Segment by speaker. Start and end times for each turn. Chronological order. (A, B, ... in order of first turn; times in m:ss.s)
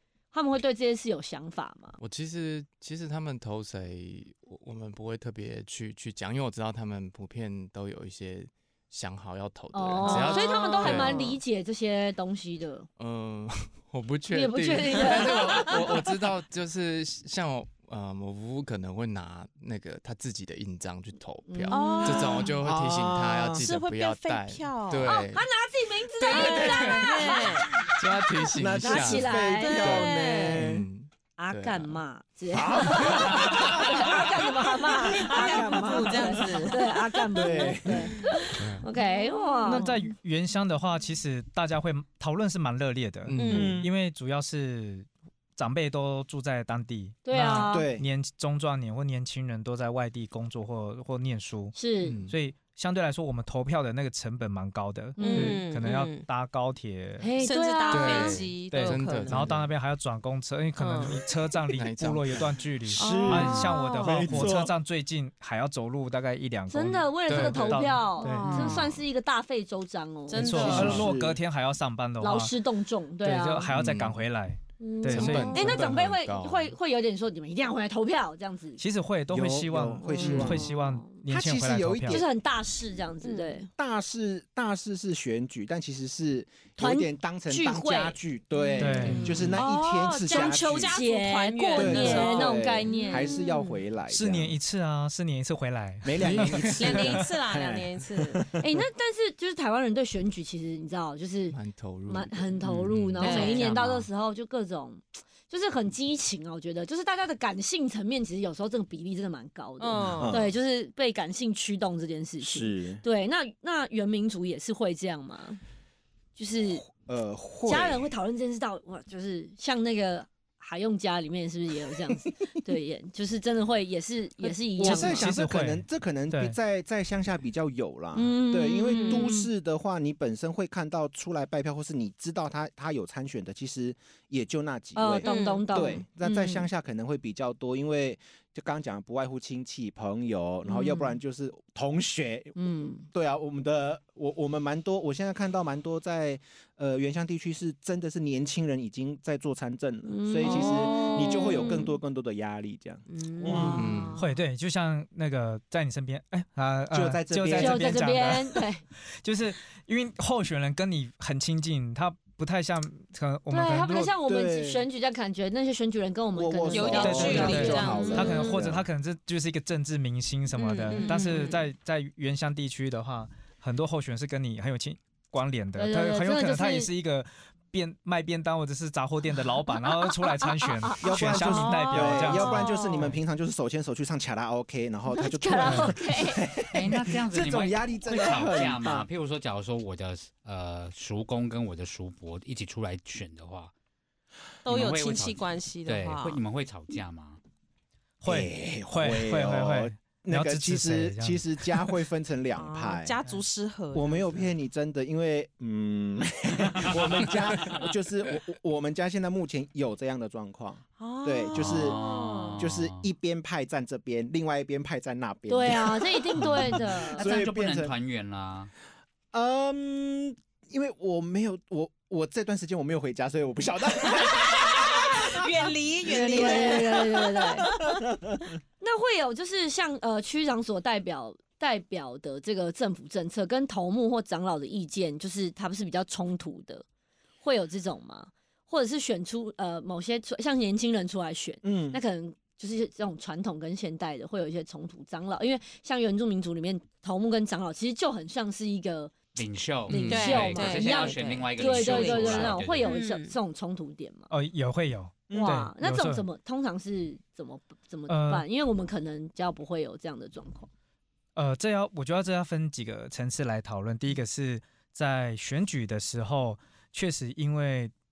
0:00.3-0:02.0 A
0:02.0-0:11.2 B
0:09.7-0:12.9 A
0:10.0-0:11.4 C
0:13.0-0:25.5 B
0:14.3-0:16.0 A
0:21.5-0:22.4 A
0:21.7-0:22.6 C
0:22.0-0:23.6 D
0:23.6-0:25.2 C
0:25.0-0:27.5 A
0:26.2-0:27.7 C
0:26.2-0:29.4 B
0:28.6-0:30.9 D
0:28.7-0:30.4 A
0:29.4-0:30.6 C
0:30.6-0:32.0 B
0:31.4-0:40.0 A
0:32.5-0:34.3 D
0:35.1-0:37.0 C
0:35.6-0:36.5 D
0:37.3-0:38.2 D
0:37.6-0:40.1 C
0:38.6-0:38.9 B
0:39.6-0:57.3 E
0:43.3-0:43.8 B
0:43.4-0:43.8 C
0:43.5-0:43.9 D
0:47.3-0:47.9 A
0:47.6-0:48.1 D
0:51.8-0:52.2 A
0:52.0-0:52.4 B
0:55.2-0:55.6 A
0:55.2-0:56.3 C
0:57.2-0:58.4 A
0:57.4-0:59.4 C
0:57.9-0:59.7 B
0:58.7-1:08.9 E
1:00.8-1:01.2 C
1:01.7-1:02.9 B
1:03.0-1:04.3 C
1:03.0-1:04.7 D
1:06.7-1:11.0 A
1:07.3-1:08.8 B
1:08.2-1:09.0 C
1:10.3-1:11.1 C
1:10.3-1:11.4 D
1:10.4-1:12.6 E
1:12.2-1:13.7 A
1:13.2-1:15.9 E
1:13.7-1:14.2 B
1:14.8-1:18.8 A
1:15.0-1:16.8 B
1:15.1-1:15.9 C
1:18.8-1:22.2 E
1:19.3-1:20.7 D
1:20.0-1:21.1 A
1:21.3-1:22.3 D
1:22.1-1:23.7 A
1:23.2-1:23.6 C
1:23.8-1:31.0 D
1:26.8-1:28.2 A
1:28.6-1:33.8 C
1:28.8-1:29.6 E
1:28.8-1:29.4 A
1:29.0-1:29.6 B
1:30.2-1:33.4 A
1:31.8-1:34.6 D
1:34.1-1:37.3 E
1:36.0-1:38.6 D
1:36.2-1:36.8 B
1:36.8-1:38.5 C
1:38.6-1:55.6 A
1:41.5-1:43.3 B
1:43.1-1:44.1 F
1:43.2-1:43.7 C
1:49.8-1:50.4 C
1:50.1-1:50.5 D
1:52.4-1:53.0 D
1:56.4-1:56.9 A
1:56.9-1:58.1 D
1:57.6-2:05.3 A
2:04.8-2:22.6 D
2:04.8-2:06.6 E
2:08.1-2:09.5 A
2:08.9-2:09.4 C
2:15.0-2:16.7 A
2:15.2-2:16.1 C
2:20.7-2:21.1 A
2:22.6-2:23.1 A
2:23.1-2:33.8 D
2:30.0-2:31.9 A
2:30.4-2:31.9 C
2:33.1-2:34.0 C
2:33.4-2:34.3 A
2:33.7-2:34.2 B
2:34.2-2:44.2 E
2:36.9-2:38.2 D
2:37.5-2:38.8 A
2:43.5-2:48.6 A
2:44.2-2:44.9 D
2:46.4-2:48.8 D
2:46.7-2:48.5 C
2:47.0-3:02.6 E
2:50.6-2:51.6 C
2:50.9-2:51.4 A
2:55.8-2:56.9 A
3:00.1-3:02.8 A
3:01.0-3:09.1 D
3:01.7-3:03.1 C
3:05.1-3:06.4 A
3:05.6-3:05.9 E
3:06.7-3:13.7 F
3:14.6-3:16.4 C
3:14.6-3:17.4 F
3:18.2-3:22.0 E
3:18.3-3:23.2 D
3:22.5-3:24.6 C
3:23.9-3:32.0 D
3:26.9-3:27.8 F
3:31.0-3:32.7 C
3:31.5-3:33.1 F
3:32.6-3:37.9 D
3:35.5-3:37.3 A
3:37.1-3:38.7 F
3:39.3-3:47.1 D
3:44.1-3:48.0 C
3:46.1-3:47.7 A
3:47.8-3:48.4 D
3:48.8-3:56.8 A
3:57.4-4:09.1 A
4:01.6-4:02.0 D
4:09.4-4:13.0 F
4:09.9-4:14.3 A
4:09.9-4:10.6 B
4:10.1-4:13.4 C
4:14.3-4:16.2 E
4:15.3-4:15.6 D
4:15.3-4:20.7 A
4:18.1-4:18.4 E
4:21.4-4:27.9 E